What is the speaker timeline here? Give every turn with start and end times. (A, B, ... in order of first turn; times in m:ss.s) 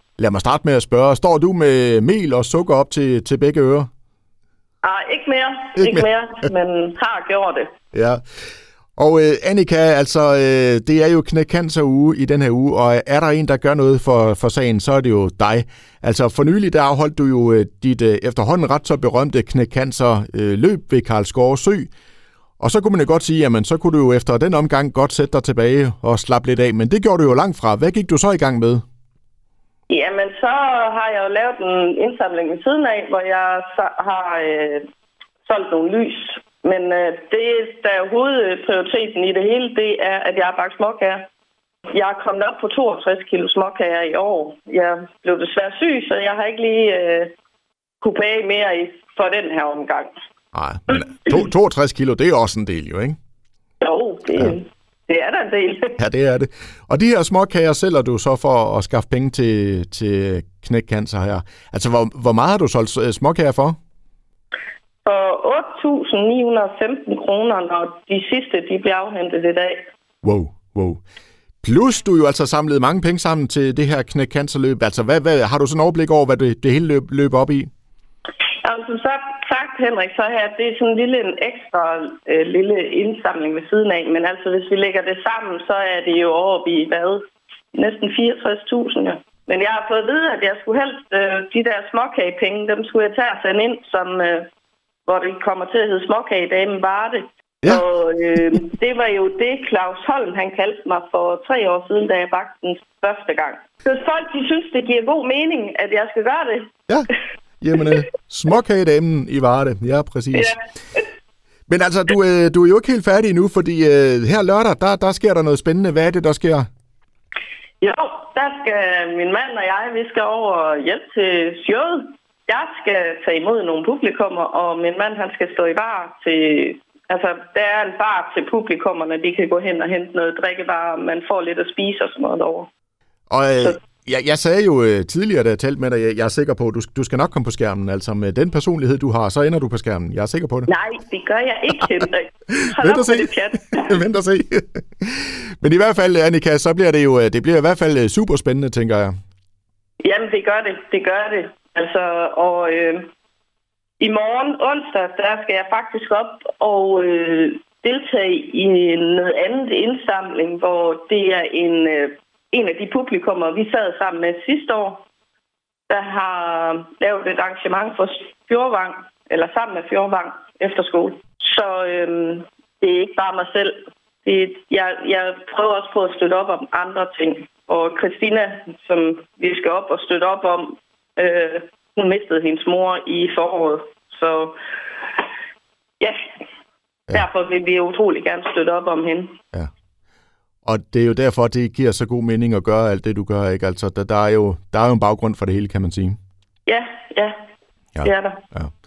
0:00.2-0:03.9 A
0:04.8-0:07.7 B
0:05.8-0:06.1 A
0:07.9-0:08.2 A
0:09.0-0:21.9 A
0:22.6-0:28.8 A
0:29.9-0:34.8 B
0:35.4-0:41.2 B
0:41.9-0:47.3 B
0:48.0-0:50.1 B
0:50.5-0:53.2 A
0:53.8-0:56.0 B
0:56.0-1:03.8 A
1:05.0-1:09.8 B
1:10.2-1:11.0 A
1:11.6-1:17.7 A
1:18.6-1:27.2 B
1:27.7-1:34.5 B
1:35.0-1:46.7 B
1:47.6-1:50.5 A
1:50.3-1:51.0 B
1:51.7-1:56.6 A
1:57.8-2:12.7 B
2:13.3-2:20.7 A
2:20.7-2:24.0 B
2:22.5-2:29.1 A
2:30.0-2:33.1 B
2:34.0-2:45.0 B
2:45.9-3:04.6 B
3:07.1-3:09.4 B
3:10.6-3:16.2 A
3:16.7-3:17.4 B
3:17.9-3:18.7 A
3:18.0-3:18.4 B